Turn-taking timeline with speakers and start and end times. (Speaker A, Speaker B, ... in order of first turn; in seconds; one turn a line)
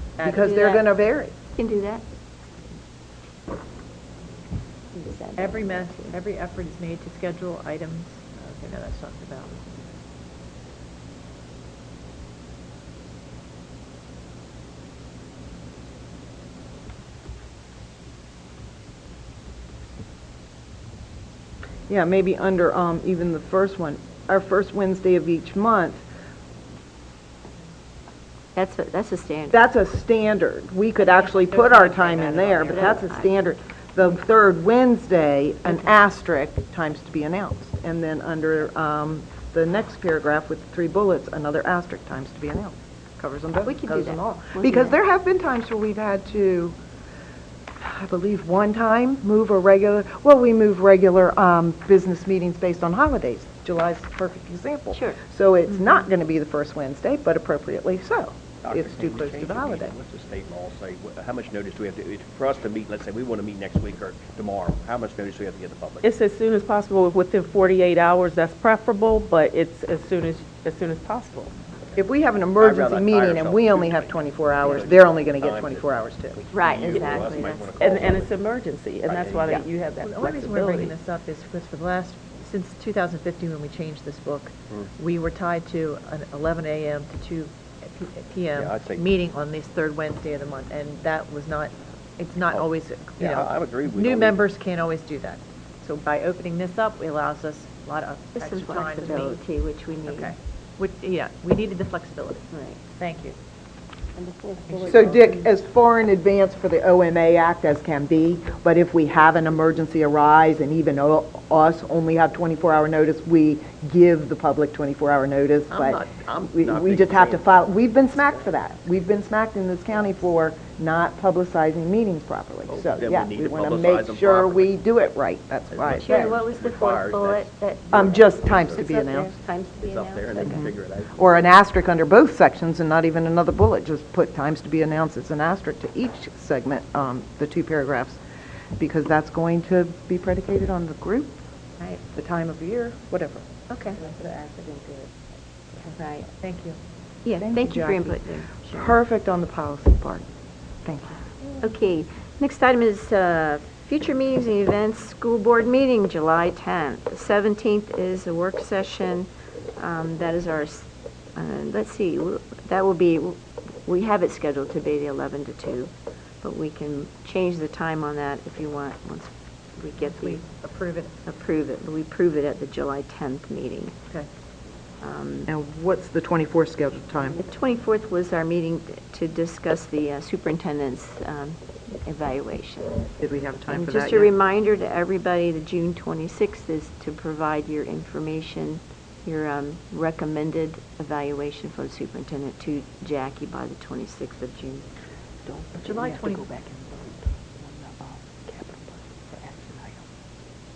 Speaker A: 0.2-0.5
Speaker B: 0.2-1.3
Speaker C: 0.3-0.8
Speaker C: 1.5-2.0
Speaker C: 4.9-6.2
Speaker A: 5.4-9.6
Speaker B: 21.9-26.0
Speaker C: 28.5-29.6
Speaker B: 29.5-46.7
Speaker A: 31.0-32.9
Speaker C: 32.6-33.3
Speaker C: 43.6-45.0
Speaker B: 47.8-59.9
Speaker C: 54.9-55.2
Speaker D: 58.6-66.0
Speaker E: 66.0-71.6
Speaker B: 72.0-76.5
Speaker D: 72.6-75.9
Speaker C: 76.5-77.8
Speaker D: 76.5-78.5
Speaker E: 76.9-77.2
Speaker E: 77.8-80.9
Speaker D: 79.0-79.6
Speaker A: 80.0-99.4
Speaker D: 88.5-89.1
Speaker D: 93.2-94.5
Speaker C: 98.3-100.3
Speaker A: 100.0-103.3
Speaker C: 102.5-102.8
Speaker E: 104.2-105.4
Speaker A: 104.7-105.3
Speaker B: 104.8-126.4
Speaker D: 115.7-117.6
Speaker D: 122.7-125.0
Speaker D: 125.7-128.9
Speaker C: 126.0-130.7
Speaker B: 127.9-129.3
Speaker D: 129.8-131.4
Speaker B: 130.4-138.2
Speaker B: 138.8-141.3
Speaker B: 142.1-143.4
Speaker C: 143.7-144.0
Speaker E: 143.9-145.1
Speaker C: 145.9-146.3
Speaker A: 146.4-146.8
Speaker C: 147.2-149.0
Speaker B: 147.4-150.3
Speaker B: 150.8-151.2
Speaker C: 151.6-170.4
Speaker A: 170.0-171.1
Speaker C: 171.2-173.9
Speaker C: 175.0-175.5
Speaker B: 175.5-177.4
Speaker C: 177.4-183.1
Speaker B: 183.2-184.3
Speaker C: 183.7-194.9
Speaker E: 195.4-200.0
Speaker A: 195.8-196.4